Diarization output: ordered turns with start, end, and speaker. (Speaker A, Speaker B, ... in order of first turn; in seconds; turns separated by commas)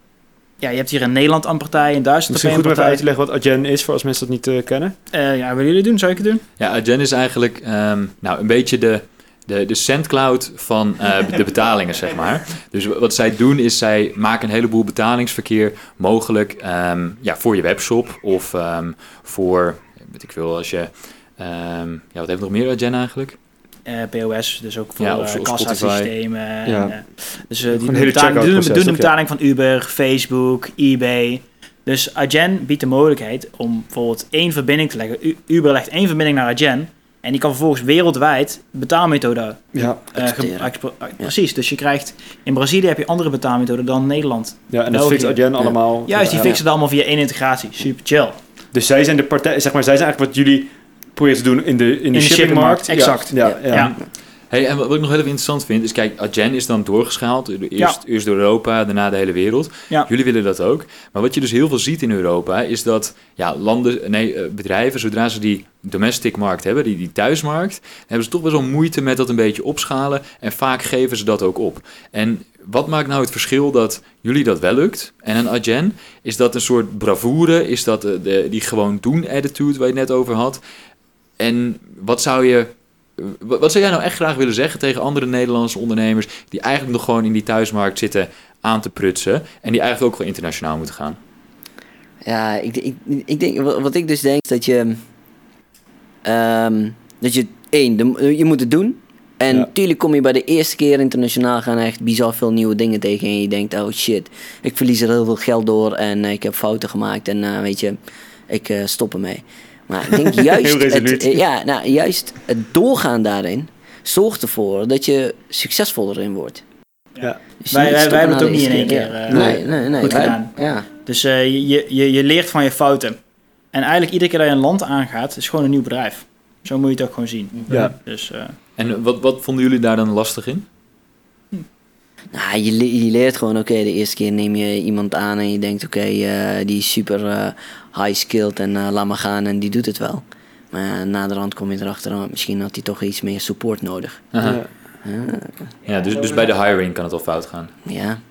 Speaker A: 0.6-3.0, Speaker B: 2.3-5.0, Speaker A: 5.1-6.4, Speaker C: 6.6-23.4, Speaker A: 23.9-48.4, Speaker C: 25.0-26.1, Speaker B: 26.7-27.0, Speaker B: 27.7-29.1, Speaker D: 40.1-41.3, Speaker B: 44.7-46.6, Speaker B: 48.7-53.9, Speaker A: 52.1-54.0, Speaker C: 53.7-80.6, Speaker C: 81.4-91.2, Speaker D: 92.2-95.0, Speaker D: 96.2-108.0, Speaker D: 108.5-116.6, Speaker B: 110.4-111.4, Speaker D: 117.6-120.9, Speaker A: 117.7-123.2, Speaker B: 119.3-119.6, Speaker A: 123.7-128.5, Speaker C: 128.8-130.7, Speaker D: 132.3-144.3, Speaker C: 144.3-144.6, Speaker B: 144.4-144.7, Speaker D: 145.0-145.7, Speaker C: 145.9-147.7, Speaker D: 147.9-148.2